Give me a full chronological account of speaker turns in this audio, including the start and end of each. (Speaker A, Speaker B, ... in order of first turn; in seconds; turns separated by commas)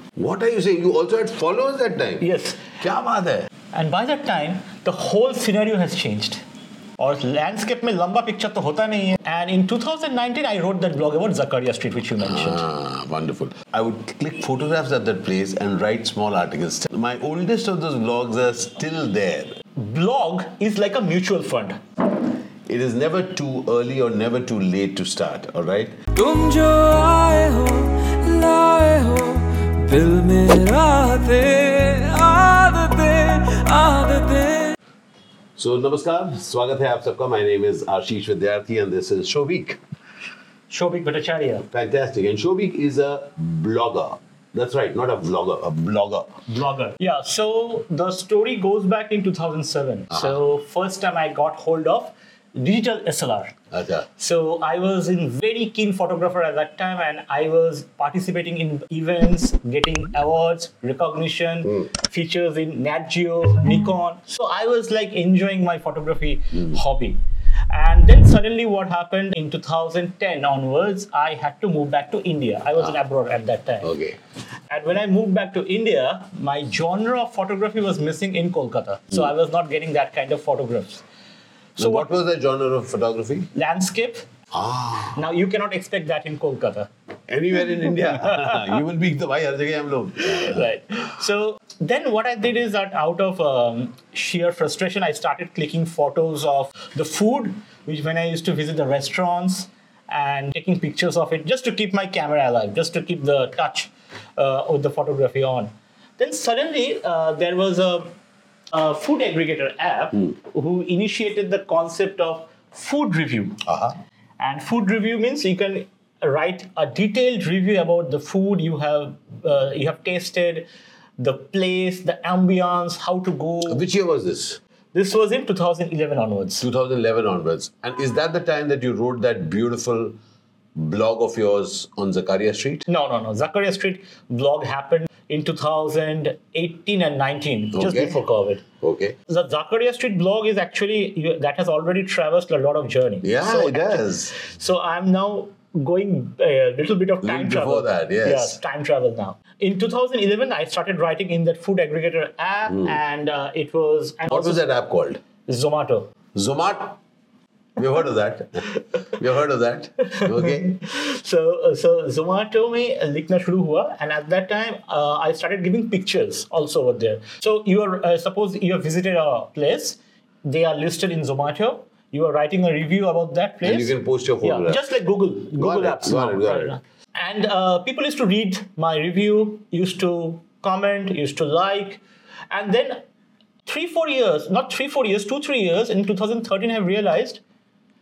Speaker A: 0.2-3.5, Speaker B: 2.2-2.7, Speaker B: 3.7-6.4, Speaker B: 7.0-12.7, Speaker A: 12.2-19.5, Speaker B: 19.8-21.8, Speaker A: 22.7-26.0, Speaker C: 26.1-34.8, Speaker A: 35.6-39.8, Speaker B: 40.7-41.6, Speaker A: 41.7-46.4, Speaker B: 46.5-53.5, Speaker A: 50.1-50.4, Speaker A: 53.7-54.1, Speaker B: 54.2-73.9, Speaker A: 73.8-74.2, Speaker B: 74.7-81.0, Speaker A: 81.8-83.5, Speaker B: 81.8-82.1, Speaker B: 83.5-84.3, Speaker A: 84.5-85.2, Speaker B: 85.1-86.9, Speaker A: 87.3-90.8, Speaker B: 88.2-88.6, Speaker B: 90.2-108.1, Speaker B: 108.7-113.6, Speaker A: 113.7-113.9, Speaker B: 114.4-120.7, Speaker B: 121.2-123.8, Speaker A: 123.7-124.6, Speaker B: 124.9-126.7, Speaker A: 126.6-130.2, Speaker A: 130.8-132.9, Speaker B: 132.9-138.6, Speaker A: 137.7-138.2, Speaker A: 138.8-139.2, Speaker B: 139.3-154.6, Speaker A: 143.2-144.3, Speaker A: 147.2-148.6, Speaker A: 152.7-153.0, Speaker A: 154.3-155.2, Speaker B: 155.5-156.1, Speaker A: 156.3-157.0, Speaker A: 157.8-160.7, Speaker B: 160.1-173.9, Speaker A: 173.6-174.8, Speaker B: 174.4-183.0, Speaker A: 175.5-176.8, Speaker B: 183.7-187.4